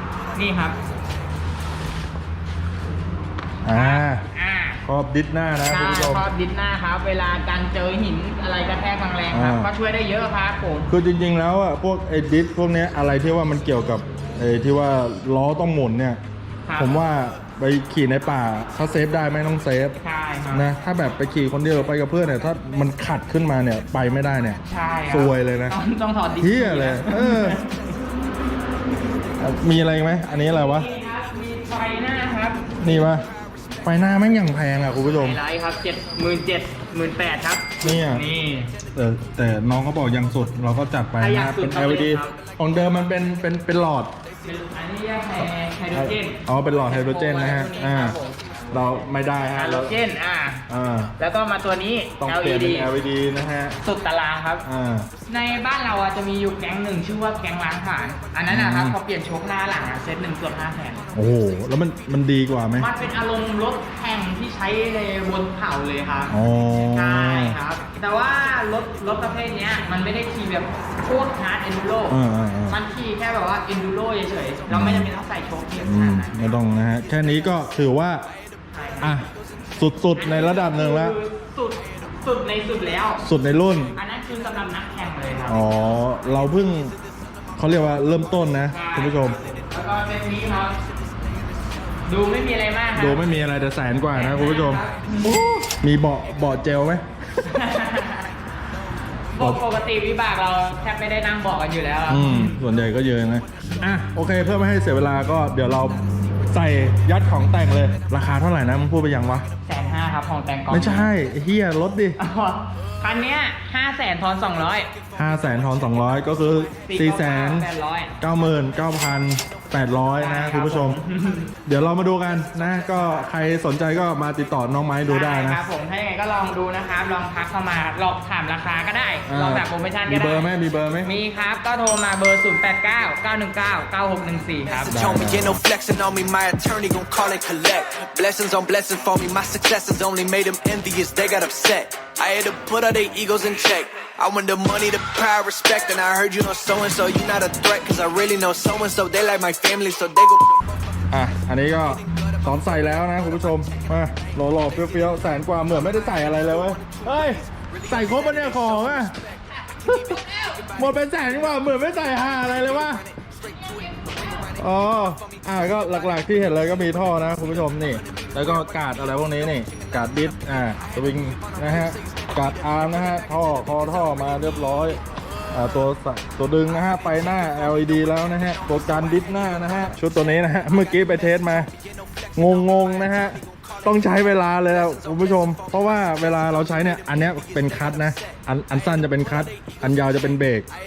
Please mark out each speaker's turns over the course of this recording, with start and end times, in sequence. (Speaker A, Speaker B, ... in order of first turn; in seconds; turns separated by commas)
Speaker A: 0.3-0.8, Speaker B: 3.6-4.2, Speaker A: 3.7-4.8, Speaker B: 4.8-6.3, Speaker A: 5.7-10.9, Speaker B: 9.3-9.7, Speaker B: 10.9-16.2, Speaker A: 16.7-17.0, Speaker B: 16.8-20.0, Speaker A: 20.0-20.6, Speaker B: 20.5-25.8, Speaker A: 24.6-28.0, Speaker B: 26.4-27.6, Speaker B: 29.4-30.9, Speaker A: 30.4-32.7, Speaker B: 32.8-33.3, Speaker B: 33.8-35.4, Speaker A: 35.1-38.7, Speaker B: 37.8-38.2, Speaker B: 39.0-44.1, Speaker A: 41.2-42.4, Speaker A: 44.5-49.0, Speaker B: 45.9-48.2, Speaker B: 48.7-50.0, Speaker A: 49.5-50.6, Speaker B: 50.7-51.1, Speaker A: 51.2-52.9, Speaker B: 52.2-53.8, Speaker A: 53.8-54.6, Speaker B: 54.7-55.1, Speaker A: 55.3-61.1, Speaker B: 58.5-59.0, Speaker B: 61.1-62.9, Speaker A: 62.8-76.6, Speaker B: 66.3-67.6, Speaker B: 72.1-72.8, Speaker B: 74.7-75.1, Speaker B: 75.8-78.2, Speaker A: 78.7-79.2, Speaker B: 79.0-81.2, Speaker A: 80.2-83.2, Speaker B: 83.2-84.0, Speaker A: 84.0-85.6, Speaker B: 85.5-87.0, Speaker B: 87.6-89.4, Speaker A: 88.7-90.8, Speaker A: 92.1-93.2, Speaker B: 93.0-97.5, Speaker A: 94.1-95.4, Speaker A: 97.5-98.3, Speaker A: 99.3-102.6, Speaker B: 99.4-99.6, Speaker B: 102.1-109.5, Speaker A: 109.7-111.1, Speaker B: 110.7-112.2, Speaker A: 112.2-114.9, Speaker B: 115.2-117.7, Speaker A: 116.8-118.1, Speaker B: 118.2-121.0, Speaker A: 120.2-121.5, Speaker B: 121.7-125.6, Speaker A: 123.0-123.3, Speaker A: 125.1-130.5, Speaker B: 129.3-131.1, Speaker A: 131.0-135.0, Speaker C: 134.7-150.7, Speaker B: 134.9-135.6, Speaker B: 151.1-159.1, Speaker B: 159.8-163.0, Speaker A: 163.6-164.2, Speaker B: 164.4-175.0, Speaker B: 175.5-181.7, Speaker B: 182.4-190.7